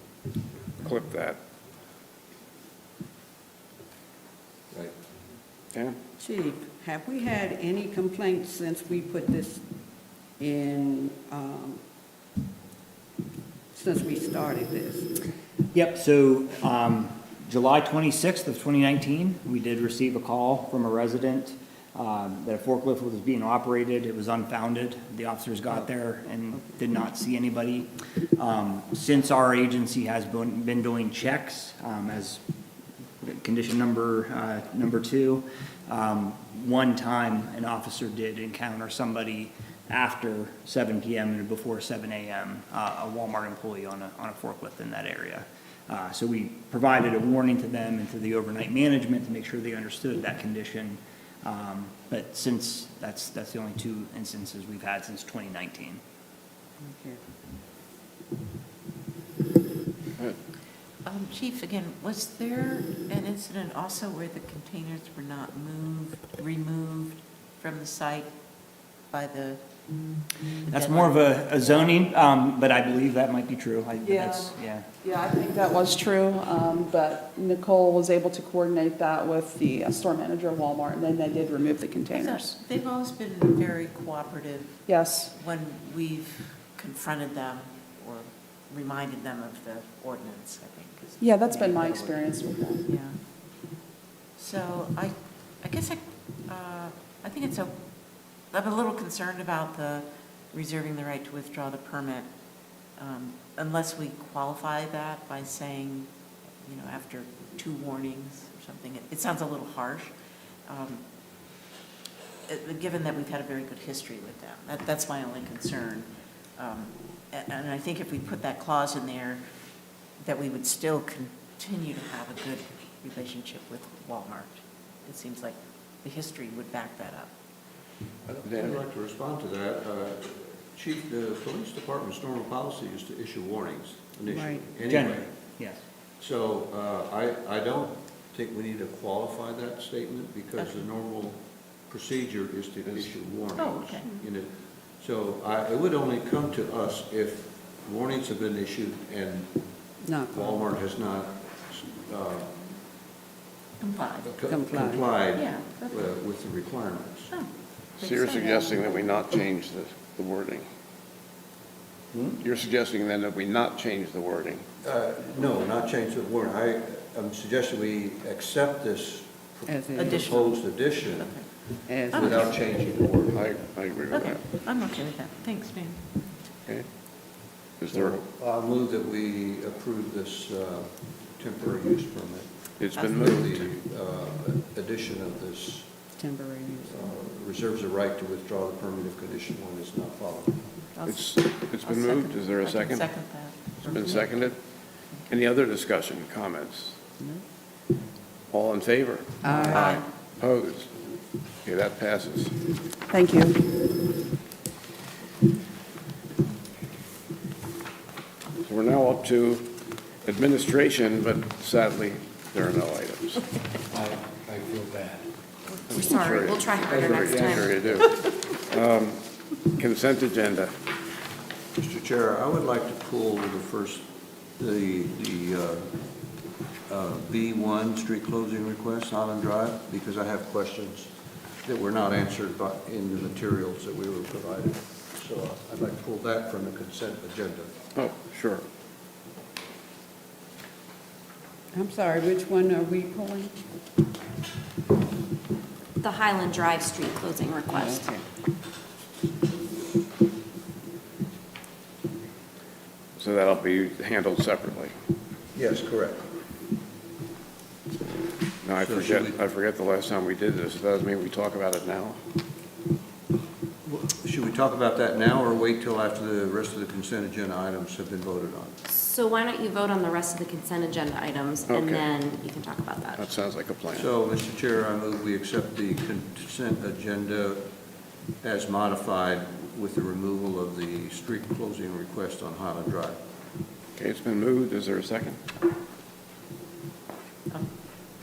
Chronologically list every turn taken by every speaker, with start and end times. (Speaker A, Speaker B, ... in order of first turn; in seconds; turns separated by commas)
Speaker A: 0.8-1.4, Speaker B: 6.2-9.6, Speaker B: 10.4-11.8, Speaker B: 13.7-15.1, Speaker C: 15.7-32.4, Speaker C: 33.2-56.0, Speaker B: 56.8-57.2, Speaker D: 61.0-68.3, Speaker D: 69.1-71.9, Speaker C: 70.7-74.8, Speaker E: 74.1-74.4, Speaker E: 75.2-82.4, Speaker D: 82.1-93.2, Speaker E: 91.2-92.8, Speaker D: 94.3-97.8, Speaker D: 98.5-102.3, Speaker D: 103.0-106.1, Speaker D: 106.6-110.1, Speaker D: 110.7-111.0, Speaker D: 112.5-119.4, Speaker D: 120.2-127.3, Speaker F: 128.2-135.3, Speaker A: 128.4-128.8, Speaker B: 134.2-134.7, Speaker C: 134.8-135.8, Speaker F: 136.2-152.7, Speaker D: 140.6-140.8, Speaker A: 142.9-143.1, Speaker D: 143.6-144.1, Speaker B: 150.0-150.7, Speaker D: 153.8-154.4, Speaker F: 154.2-157.3, Speaker B: 154.4-155.1, Speaker D: 155.3-156.1, Speaker D: 157.3-159.2, Speaker A: 158.0-160.7, Speaker F: 162.1-162.4, Speaker A: 162.4-164.6, Speaker F: 164.8-173.6, Speaker B: 169.7-170.4, Speaker D: 169.9-172.5, Speaker B: 171.8-172.5, Speaker A: 173.3-174.4, Speaker D: 174.1-176.2, Speaker A: 177.8-178.2, Speaker F: 177.9-185.9, Speaker A: 182.8-183.7, Speaker B: 186.2-187.1, Speaker F: 186.9-190.7, Speaker D: 190.9-194.5, Speaker A: 191.1-193.1, Speaker A: 193.8-194.6, Speaker A: 195.3-197.0, Speaker A: 198.5-200.9, Speaker B: 199.4-200.0, Speaker A: 201.6-202.5, Speaker E: 203.1-203.6, Speaker A: 208.6-213.4, Speaker G: 213.9-215.2, Speaker H: 215.7-217.7, Speaker A: 215.9-220.7, Speaker G: 217.1-218.0, Speaker F: 221.8-225.9, Speaker F: 226.8-231.1, Speaker F: 231.6-237.7, Speaker A: 237.9-238.7, Speaker B: 241.7-243.5, Speaker H: 246.0-248.1, Speaker B: 247.7-248.2, Speaker A: 253.2-254.9, Speaker F: 255.5-256.2, Speaker A: 258.6-262.2, Speaker F: 258.8-259.4, Speaker F: 263.9-268.8, Speaker H: 268.9-273.3, Speaker A: 271.7-272.1, Speaker A: 273.1-274.1, Speaker F: 273.9-277.7, Speaker F: 278.4-283.2, Speaker A: 283.9-285.4